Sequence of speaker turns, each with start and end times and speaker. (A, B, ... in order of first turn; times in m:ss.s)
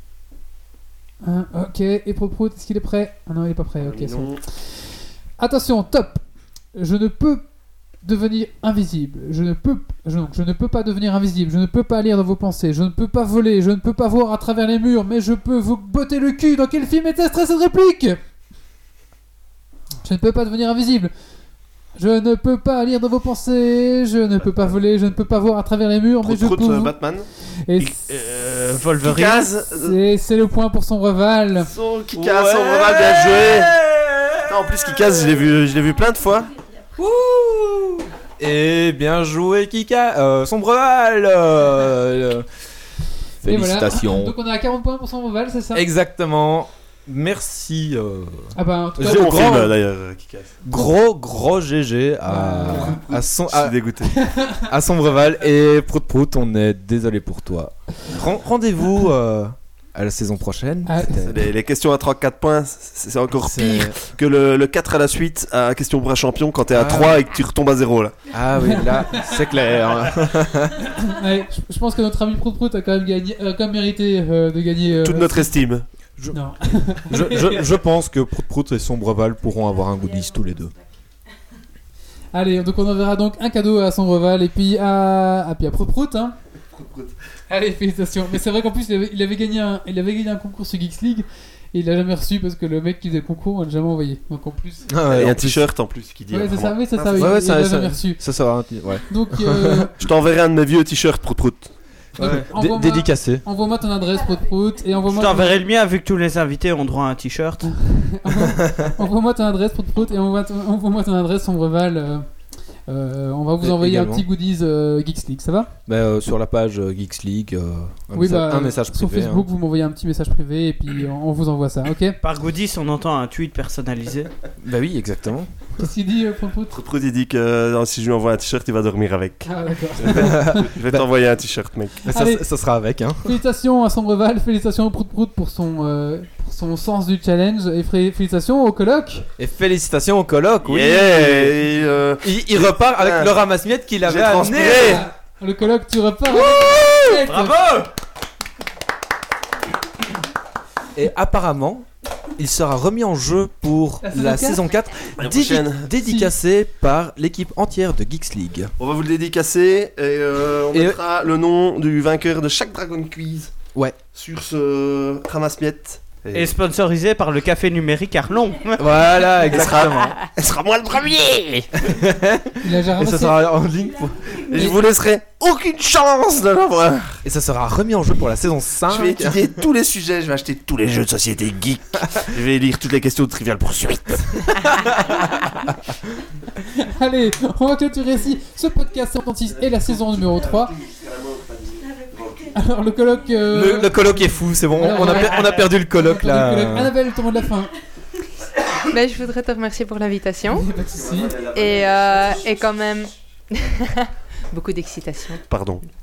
0:01.2-0:06.2 A
0:03.8-0:04.4 B
0:06.8-0:07.5 A
0:08.0-0:18.2 A
0:20.0-0:21.1 A
0:22.0-0:28.0 A
0:26.2-0:27.3 B
0:27.8-0:29.5 C
0:29.0-0:30.0 B
0:29.7-0:31.7 A
0:31.6-0:33.7 B
0:32.1-0:35.3 D
0:34.5-0:36.5 B
0:37.0-0:42.5 D
0:43.4-0:44.4 D
0:43.5-0:45.9 A
0:45.7-0:49.8 D
0:48.6-0:49.7 A
0:49.0-0:50.6 B
0:50.6-0:53.8 D
0:52.3-0:53.0 A
0:52.7-0:54.2 B
0:54.1-0:54.7 A
0:54.6-1:01.5 D
1:00.9-1:01.3 A
1:01.3-1:08.3 B
1:03.4-1:04.0 D
1:06.7-1:07.2 D
1:08.3-1:10.9 D
1:08.6-1:09.4 A
1:10.8-1:15.6 A
1:15.0-1:15.9 B
1:16.3-1:17.6 A
1:17.1-1:20.8 D
1:22.3-1:26.4 A
1:26.7-1:27.1 B
1:27.5-1:34.9 A
1:34.9-1:35.7 D
1:35.1-1:37.4 B
1:36.3-1:38.2 A
1:37.1-1:39.9 D
1:39.1-1:40.0 A
1:40.0-1:41.7 B
1:42.2-1:43.4 D
1:42.2-1:45.6 A
1:45.1-1:47.7 C
1:47.8-1:52.3 A
1:48.5-1:48.9 D
1:52.9-1:55.7 A
1:53.6-1:54.3 D
1:55.9-1:59.5 D
1:58.1-2:02.2 A
2:02.2-2:04.3 C
2:04.6-2:05.9 D
2:05.8-2:06.8 A
2:06.7-2:12.0 B
2:09.4-2:10.7 A
2:10.1-2:11.1 D
2:12.0-2:13.4 D
2:12.1-2:12.4 A
2:13.2-2:19.3 A
2:19.4-2:21.6 D
2:20.6-2:23.4 B
2:22.2-2:25.0 D
2:24.0-2:25.1 B
2:24.5-2:27.6 A
2:27.3-2:27.9 C
2:31.0-2:38.7 D
2:34.0-2:34.6 A
2:35.2-2:35.9 B
2:36.0-2:36.3 A
2:38.8-2:43.5 B
2:40.7-2:41.0 D
2:44.1-2:46.6 B
2:46.3-2:49.4 C
2:48.8-2:50.2 D
2:49.5-2:51.7 B
2:51.8-2:54.8 D
2:52.6-2:53.4 A
2:54.5-2:57.2 B
2:57.2-2:59.6 D
2:58.9-3:04.6 B
3:04.6-3:05.7 D
3:06.6-3:10.7 A
3:10.3-3:12.5 B
3:12.5-3:17.7 A
3:13.5-3:16.9 D
3:18.8-3:20.7 E
3:20.5-3:21.4 A
3:20.8-3:22.3 B
3:21.5-3:25.4 E
3:25.5-3:25.8 B